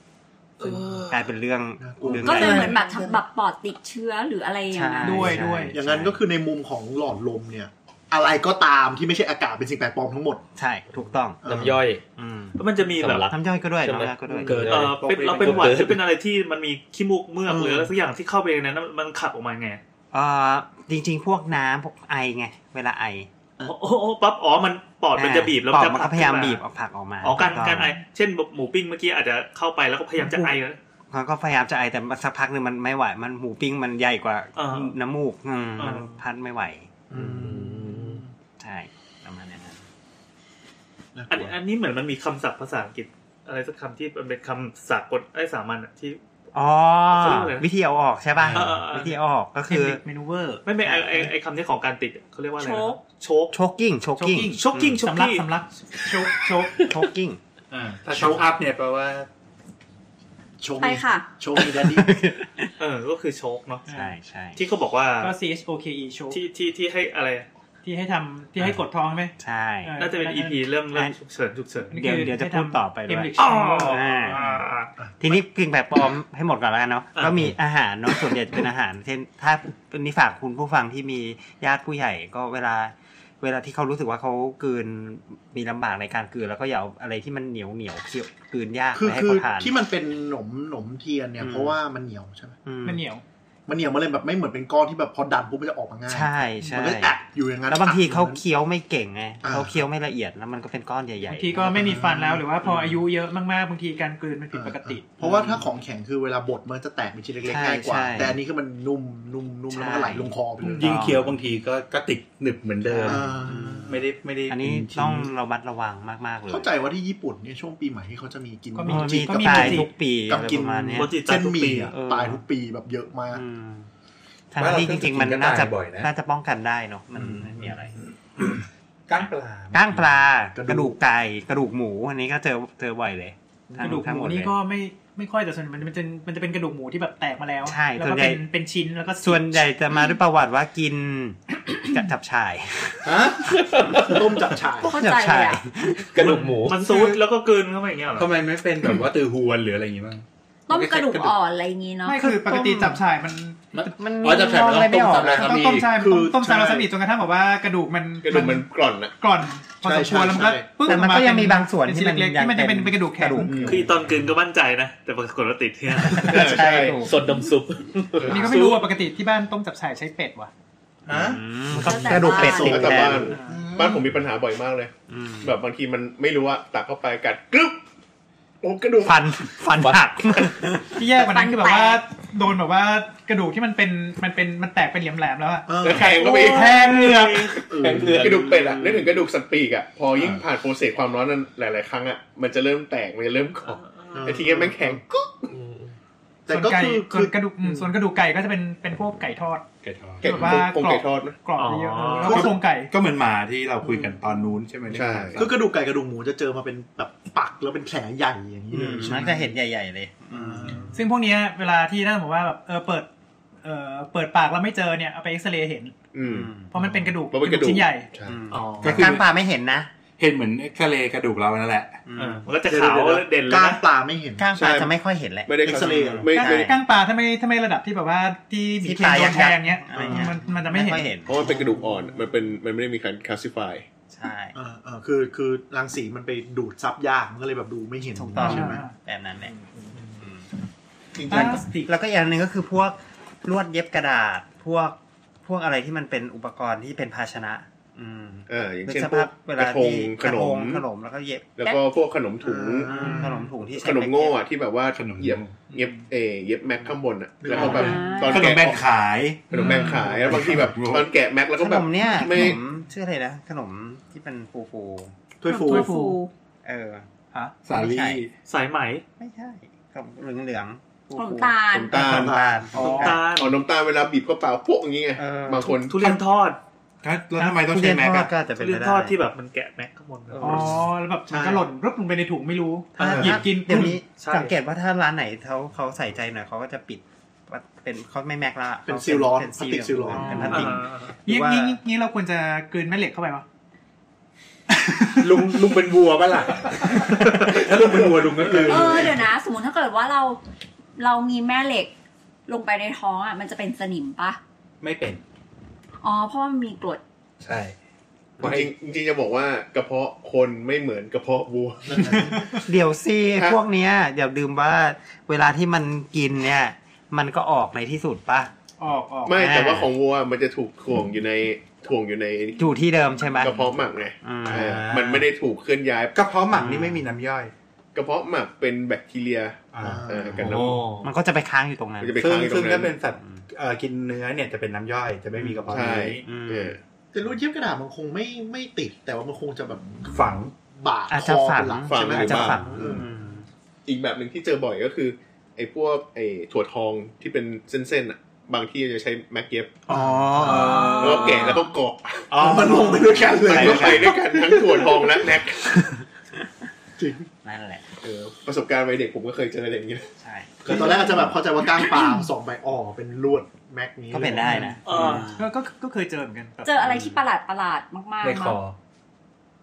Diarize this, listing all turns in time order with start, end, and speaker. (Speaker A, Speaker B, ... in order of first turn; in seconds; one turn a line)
Speaker A: 0.6-1.1
Speaker B: 1.1-2.8
Speaker C: 1.8-3.1
Speaker D: 2.2-5.3
Speaker B: 4.7-6.2
Speaker E: 5.0-5.7
Speaker C: 5.7-10.4
Speaker B: 10.6-11.6
Speaker C: 11.4-11.8
Speaker A: 11.4-12.0
Speaker B: 12.2-12.6
Speaker F: 12.6-13.3
Speaker A: 13.0-16.0
Speaker B: 13.2-14.7
Speaker G: 14.4-15.9
Speaker F: 14.7-19.8
Speaker C: 17.5-17.9
Speaker B: 20.1-23.3
Speaker F: 23.6-26.6
Speaker B: 25.1-27.9
Speaker F: 27.2-30.8
Speaker B: 31.1-37.6
Speaker F: 34.5-34.9
Speaker F: 35.8-36.2
Speaker C: 37.1-38.3
Speaker A: 37.3-38.2
Speaker B: 38.6-39.8
Speaker C: 41.1-41.5
Speaker F: 41.3-46.2
Speaker B: 46.5-50.0
Speaker F: 47.1-47.7
Speaker G: 48.4-48.7
Speaker F: 48.5-49.2
Speaker E: 49.7-51.3
Speaker F: 50.6-53.5
Speaker D: 52.6-53.0
Speaker B: 53.5-55.0
Speaker E: 54.2-56.8
Speaker F: 54.6-55.4
Speaker B: 56.8-57.4
Speaker G: 57.7-59.3
Speaker C: 60.6-62.2
Speaker D: 60.8-61.3
Speaker B: 61.6-62.7
Speaker F: 62.8-63.9
Speaker E: 63.9-64.1
Speaker B: 63.9-64.6
Speaker F: 64.5-65.3
Speaker E: 65.2-66.4
Speaker F: 66.3-67.5
Speaker E: 67.8-70.6
Speaker B: 69.4-69.9
Speaker F: 70.0-71.9
Speaker E: 71.9-74.4
Speaker B: 71.9-74.4
Speaker F: 73.4-74.9
Speaker B: 75.2-89.7
Speaker F: 77.2-77.5
Speaker C: 88.9-92.6
Speaker B: 91.4-91.8
Speaker B: 92.7-93.0
Speaker E: 92.8-93.2
Speaker C: 93.7-98.4
Speaker B: 96.1-101.8
Speaker C: 99.4-99.8
Speaker E: 101.2-105.1
Speaker C: 101.6-102.4
Speaker B: 102.6-103.0
Speaker C: 104.5-111.2
Speaker B: 105.2-105.6
Speaker B: 107.4-108.4
Speaker B: 109.7-111.3
Speaker G: 110.6-113.3
Speaker B: 112.8-116.7
Speaker C: 113.0-114.0
Speaker G: 113.9-115.3
Speaker C: 116.5-123.4
Speaker E: 118.7-119.9
Speaker B: 118.9-121.2
Speaker F: 121.0-121.9
Speaker B: 121.9-122.4
Speaker B: 123.3-123.9
Speaker B: 124.5-128.0
Speaker G: 124.6-126.1
Speaker G: 129.1-130.1
Speaker B: 129.2-134.5
Speaker C: 130.5-131.0
Speaker E: 133.8-139.7
Speaker B: 137.6-138.4
Speaker B: 139.2-144.2
Speaker G: 143.0-143.5
Speaker A: 143.6-144.2
Speaker C: 144.0-144.9
Speaker D: 144.8-145.6
Speaker B: 144.9-146.4
Speaker A: 146.1-146.8
Speaker F: 146.5-148.3
Speaker E: 146.7-147.2
Speaker G: 148.2-151.4
Speaker D: 150.7-152.2
Speaker E: 152.0-153.9
Speaker B: 152.2-153.0
Speaker G: 153.7-155.9
Speaker B: 153.8-155.6
Speaker E: 155.3-158.7
Speaker C: 155.9-156.9
Speaker H: 158.2-159.1
Speaker E: 159.2-163.6
Speaker C: 159.8-160.7
Speaker B: 160.8-163.8
Speaker H: 163.4-163.8
Speaker F: 163.6-166.5
Speaker B: 166.0-167.2
Speaker H: 166.1-167.1
Speaker A: 167.0-168.5
Speaker H: 168.2-168.5
Speaker E: 168.2-170.5
Speaker G: 171.1-171.4
Speaker B: 171.1-173.3
Speaker D: 171.7-172.9
Speaker C: 172.1-173.6
Speaker H: 172.4-177.8
Speaker E: 173.3-173.6
Speaker B: 175.1-175.5
Speaker H: 178.6-179.5
Speaker B: 179.0-181.0
Speaker E: 180.9-187.6
Speaker D: 181.2-182.0
Speaker C: 185.7-186.2
Speaker H: 185.8-187.1
Speaker A: 186.7-189.1
Speaker C: 187.7-188.5
Speaker H: 188.0-195.5
Speaker F: 193.7-194.3
Speaker C: 194.1-195.0
Speaker A: 195.5-195.9
Speaker C: 196.4-197.9
Speaker E: 196.5-199.6
Speaker G: 199.8-200.5
Speaker H: 200.2-201.4
Speaker E: 200.2-202.9
Speaker F: 201.6-202.4
Speaker G: 202.2-205.5
Speaker C: 203.8-204.6
Speaker H: 204.9-205.5
Speaker C: 205.3-209.5
Speaker B: 208.7-210.9
Speaker C: 210.3-210.9
Speaker E: 210.9-213.1
Speaker E: 213.6-215.9
Speaker H: 216.1-216.5
Speaker B: 216.2-216.7
Speaker E: 216.7-218.1
Speaker H: 217.3-218.4
Speaker B: 218.2-219.9
Speaker F: 218.5-219.1
Speaker G: 218.8-219.2
Speaker G: 220.2-222.0
Speaker B: 222.1-222.5
Speaker F: 222.2-223.8
Speaker C: 222.6-224.5
Speaker B: 224.4-226.7
Speaker H: 224.6-226.7
Speaker C: 225.6-226.3
Speaker E: 226.3-231.1
Speaker B: 228.8-231.3
Speaker C: 229.9-230.2
Speaker H: 231.2-233.8
Speaker C: 231.3-232.1
Speaker B: 234.1-234.5
Speaker C: 234.5-238.8
Speaker B: 238.1-239.5
Speaker E: 238.4-238.9
Speaker B: 240.2-240.4
Speaker B: 241.3-251.7
Speaker E: 241.3-241.9
Speaker H: 248.5-250.8
Speaker H: 251.6-258.8
Speaker C: 252.4-253.5
Speaker B: 252.9-254.4
Speaker G: 254.9-255.7
Speaker C: 257.4-258.0
Speaker G: 257.5-261.1
Speaker D: 257.6-258.5
Speaker H: 259.5-262.6
Speaker B: 261.6-265.1
Speaker C: 265.4-265.9
Speaker D: 265.4-266.3
Speaker E: 265.6-266.2
Speaker B: 266.6-267.1
Speaker G: 267.6-268.3
Speaker B: 267.7-268.2
Speaker F: 268.5-269.0
Speaker B: 269.2-273.2
Speaker D: 271.1-272.0
Speaker H: 271.7-272.4
Speaker C: 272.0-272.8
Speaker E: 272.7-273.1
Speaker F: 272.8-273.6
Speaker H: 273.2-276.2
Speaker B: 275.2-275.8
Speaker F: 275.8-276.6
Speaker G: 277.0-278.3
Speaker B: 277.5-279.1
Speaker F: 278.6-280.6
Speaker E: 280.4-284.0
Speaker H: 281.3-281.6
Speaker B: 283.0-291.8
Speaker F: 283.0-283.3
Speaker G: 283.0-283.3
Speaker F: 284.2-284.5
Speaker C: 288.9-290.7
Speaker E: 290.1-290.7
Speaker F: 290.5-291.1
Speaker E: 291.2-293.4
Speaker E: 294.7-295.6
Speaker G: 295.1-299.2
Speaker H: 298.6-299.0
Speaker D: 298.6-300.4
Speaker D: 301.0-301.9
Speaker D: 302.5-304.4
Speaker G: 304.8-305.2
Speaker D: 306.0-307.0
Speaker G: 307.4-307.7
Speaker G: 308.4-308.7
Speaker H: 308.4-312.6
Speaker C: 311.9-312.4
Speaker B: 312.6-318.5
Speaker H: 313.3-313.6
Speaker E: 318.8-319.4
Speaker H: 319.2-322.8
Speaker B: 319.3-319.9
Speaker B: 322.6-323.6
Speaker H: 323.4-326.2
Speaker B: 324.2-324.8
Speaker G: 324.4-325.3
Speaker G: 326.1-327.5
Speaker B: 326.5-327.1
Speaker H: 327.9-330.9
Speaker G: 329.7-330.9
Speaker C: 329.8-330.5
Speaker B: 331.0-332.2
Speaker H: 332.0-332.9
Speaker G: 332.2-336.2
Speaker B: 335.4-335.6
Speaker H: 335.7-336.8
Speaker B: 336.2-336.8
Speaker C: 337.1-343.1
Speaker G: 340.1-340.5
Speaker B: 341.1-343.4
Speaker H: 341.9-342.6
Speaker H: 343.9-349.9
Speaker C: 349.9-350.9
Speaker B: 349.9-351.5
Speaker G: 350.4-351.3
Speaker H: 350.9-355.8
Speaker D: 351.3-351.6
Speaker G: 352.3-354.0
Speaker C: 352.4-355.0
Speaker B: 357.4-357.8
Speaker H: 358.0-360.1
Speaker B: 360.2-361.2
Speaker C: 360.6-364.8
Speaker B: 364.1-365.4
Speaker E: 364.4-366.7
Speaker F: 364.9-365.3
Speaker D: 366.6-368.6
Speaker G: 368.2-368.8